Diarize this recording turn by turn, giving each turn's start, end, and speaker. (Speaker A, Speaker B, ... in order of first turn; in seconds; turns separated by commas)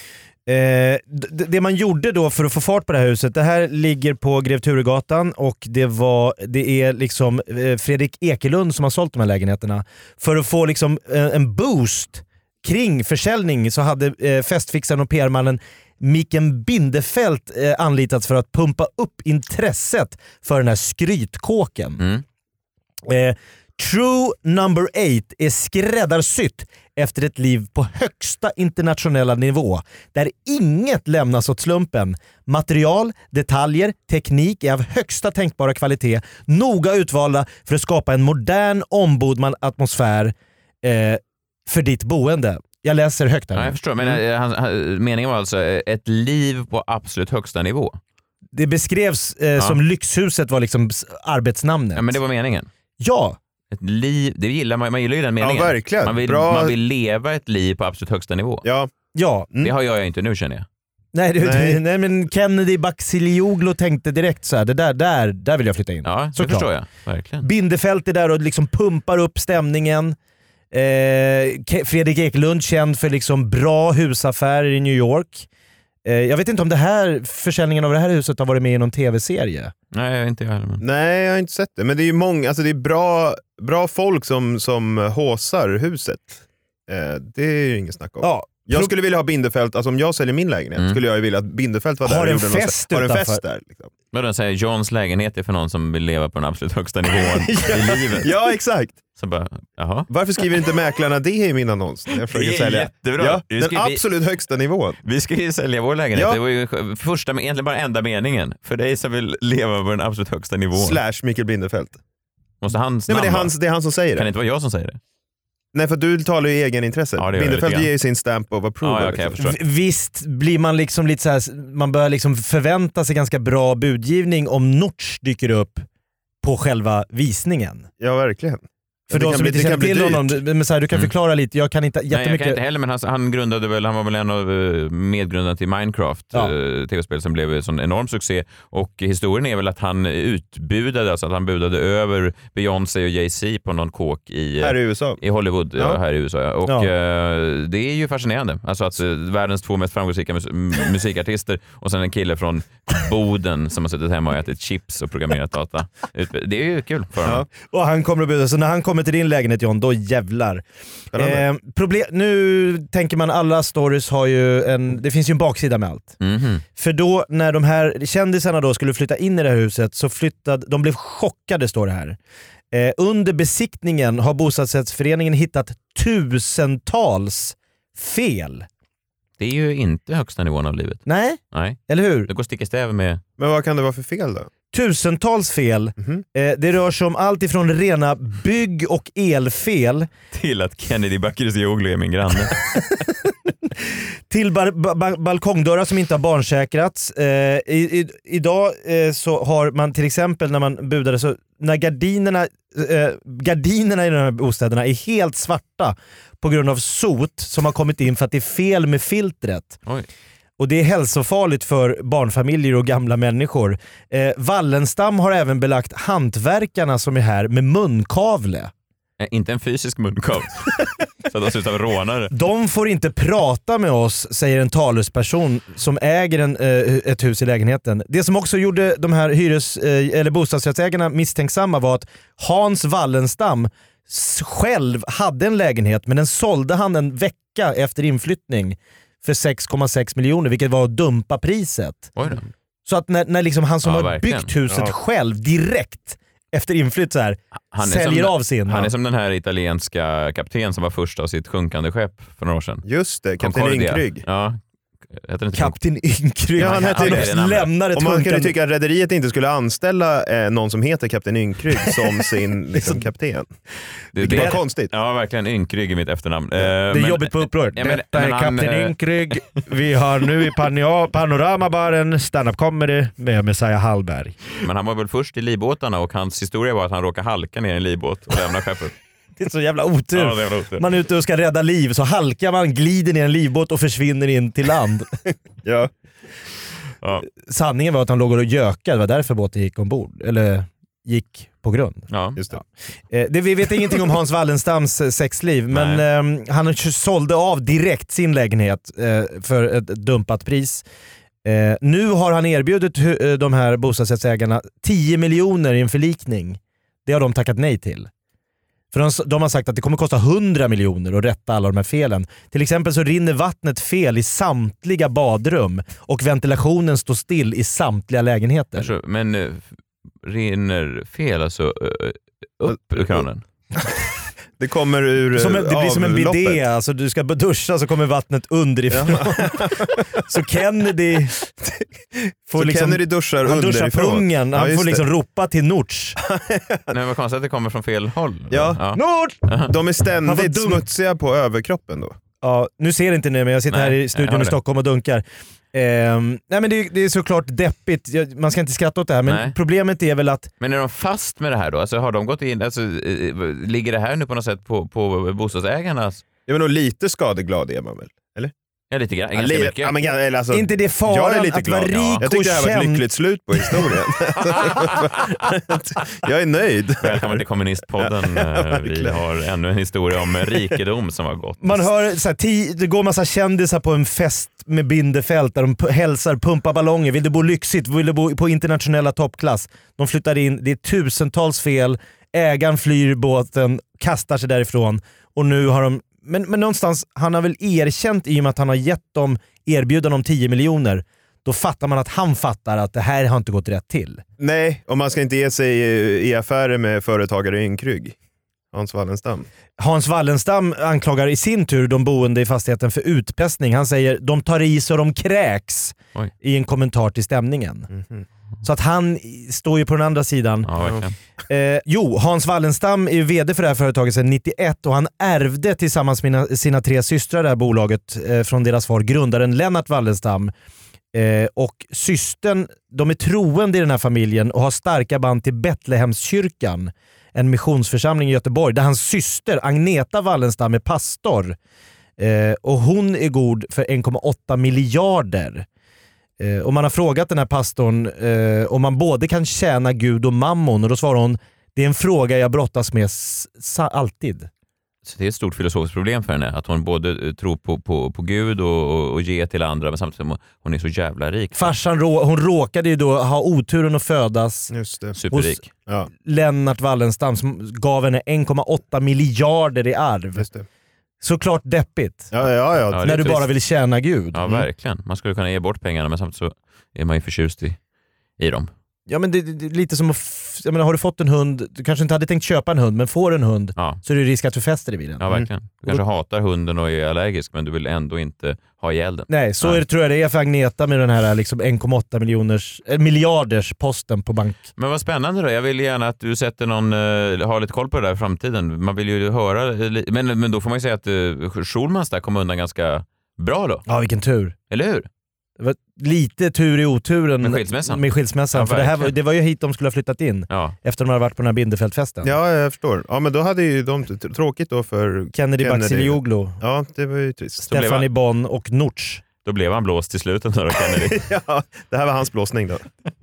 Speaker A: 0.5-22.0, Speaker A: 23.1-43.8, Speaker B: 43.5-48.0, Speaker A: 48.5-52.1, Speaker B: 52.0-52.7, Speaker A: 53.0-53.4, Speaker B: 53.7-58.6, Speaker C: 55.4-56.7, Speaker C: 58.6-58.9, Speaker A: 59.1-59.5, Speaker B: 59.6-60.6, Speaker A: 61.1-66.7, Speaker C: 61.4-61.8, Speaker B: 66.0-67.5, Speaker A: 67.4-70.2, Speaker A: 70.7-75.5, Speaker A: 76.0-79.7, Speaker B: 79.9-80.8, Speaker C: 80.8-93.9, Speaker A: 88.2-88.9, Speaker A: 92.0-93.4, Speaker B: 94.1-98.3, Speaker C: 97.6-99.0, Speaker B: 99.2-100.1, Speaker C: 100.1-105.0, Speaker B: 102.3-104.0, Speaker B: 105.0-111.0, Speaker C: 106.1-106.4, Speaker C: 110.7-112.0, Speaker B: 112.6-113.5, Speaker C: 113.1-114.3, Speaker B: 114.1-115.0, Speaker C: 115.7-119.4, Speaker B: 117.2-117.9, Speaker B: 118.8-119.5, Speaker A: 119.4-125.8, Speaker A: 126.4-127.9, Speaker C: 128.0-130.4, Speaker A: 129.1-132.6, Speaker B: 132.1-157.4, Speaker C: 144.6-145.2, Speaker A: 157.6-160.6, Speaker C: 161.1-161.4, Speaker A: 161.1-166.2, Speaker B: 166.2-166.6, Speaker A: 166.8-172.2, Speaker A: 172.7-178.7, Speaker B: 179.4-183.2, Speaker A: 181.1-182.3, Speaker C: 183.4-184.5, Speaker A: 184.7-190.1, Speaker C: 186.0-186.2, Speaker B: 190.3-192.6, Speaker A: 194.3-209.8, Speaker A: 210.6-218.7, Speaker B: 219.2-222.3, Speaker A: 222.3-242.1, Speaker B: 242.2-242.4, Speaker A: 242.8-248.9, Speaker B: 243.8-244.5, Speaker B: 247.7-252.8, Speaker C: 252.8-254.2, Speaker B: 253.4-254.6, Speaker B: 255.1-255.8, Speaker A: 255.5-258.5, Speaker B: 256.6-257.7, Speaker C: 256.6-257.4, Speaker C: 257.9-263.5, Speaker A: 262.7-263.0, Speaker B: 264.1-269.4, Speaker C: 264.2-264.9, Speaker A: 264.3-264.6, Speaker A: 266.6-274.4, Speaker B: 274.6-278.9, Speaker A: 279.4-285.1, Speaker B: 280.1-280.8, Speaker C: 285.6-285.9, Speaker B: 287.0-287.2, Speaker A: 287.4-292.1, Speaker B: 292.1-292.4, Speaker C: 292.4-292.6, Speaker A: 293.1-300.8, Speaker B: 295.7-296.0, Speaker A: 301.4-308.1, Speaker A: 308.9-318.9, Speaker B: 318.8-319.7, Speaker B: 320.2-323.4, Speaker C: 322.7-323.2, Speaker C: 324.6-326.6, Speaker A: 325.4-331.3, Speaker C: 328.9-329.9, Speaker A: 332.5-336.2, Speaker C: 332.5-335.1, Speaker C: 336.2-336.9, Speaker B: 336.9-339.7, Speaker C: 338.5-338.8, Speaker A: 338.9-339.4, Speaker C: 339.6-342.1, Speaker A: 340.2-340.8, Speaker A: 342.4-350.5, Speaker B: 343.7-344.6, Speaker B: 349.2-349.6, Speaker B: 350.6-356.2, Speaker C: 356.5-358.5, Speaker B: 358.9-359.9, Speaker C: 359.3-367.4, Speaker A: 360.5-363.1, Speaker B: 361.9-362.2, Speaker B: 367.0-371.9, Speaker C: 368.0-369.2, Speaker A: 371.6-394.2, Speaker C: 394.4-398.1, Speaker C: 398.7-399.5, Speaker A: 399.8-407.9, Speaker C: 407.9-408.2, Speaker A: 408.6-410.7, Speaker B: 410.7-411.1, Speaker C: 410.8-411.1, Speaker A: 411.5-420.5, Speaker A: 421.1-431.6, Speaker A: 432.2-435.6, Speaker A: 436.4-444.5, Speaker B: 445.0-451.7, Speaker A: 451.5-454.7, Speaker C: 454.7-455.2, Speaker B: 455.1-455.7, Speaker A: 455.3-455.6, Speaker A: 456.2-460.4, Speaker C: 460.4-460.6, Speaker A: 461.2-462.3, Speaker C: 462.3-463.4, Speaker B: 462.9-463.4, Speaker A: 463.0-464.4, Speaker B: 464.3-467.8, Speaker B: 468.4-468.7, Speaker A: 469.1-475.2, Speaker B: 475.2-479.8, Speaker A: 479.3-484.6, Speaker B: 484.8-493.9, Speaker A: 493.9-494.5, Speaker B: 494.7-495.1, Speaker A: 495.6-502.3, Speaker B: 497.4-499.1, Speaker B: 500.5-500.8, Speaker C: 502.2-507.7, Speaker A: 505.3-506.6, Speaker A: 507.7-509.2, Speaker B: 507.7-508.1, Speaker B: 509.4-511.2, Speaker C: 511.0-512.9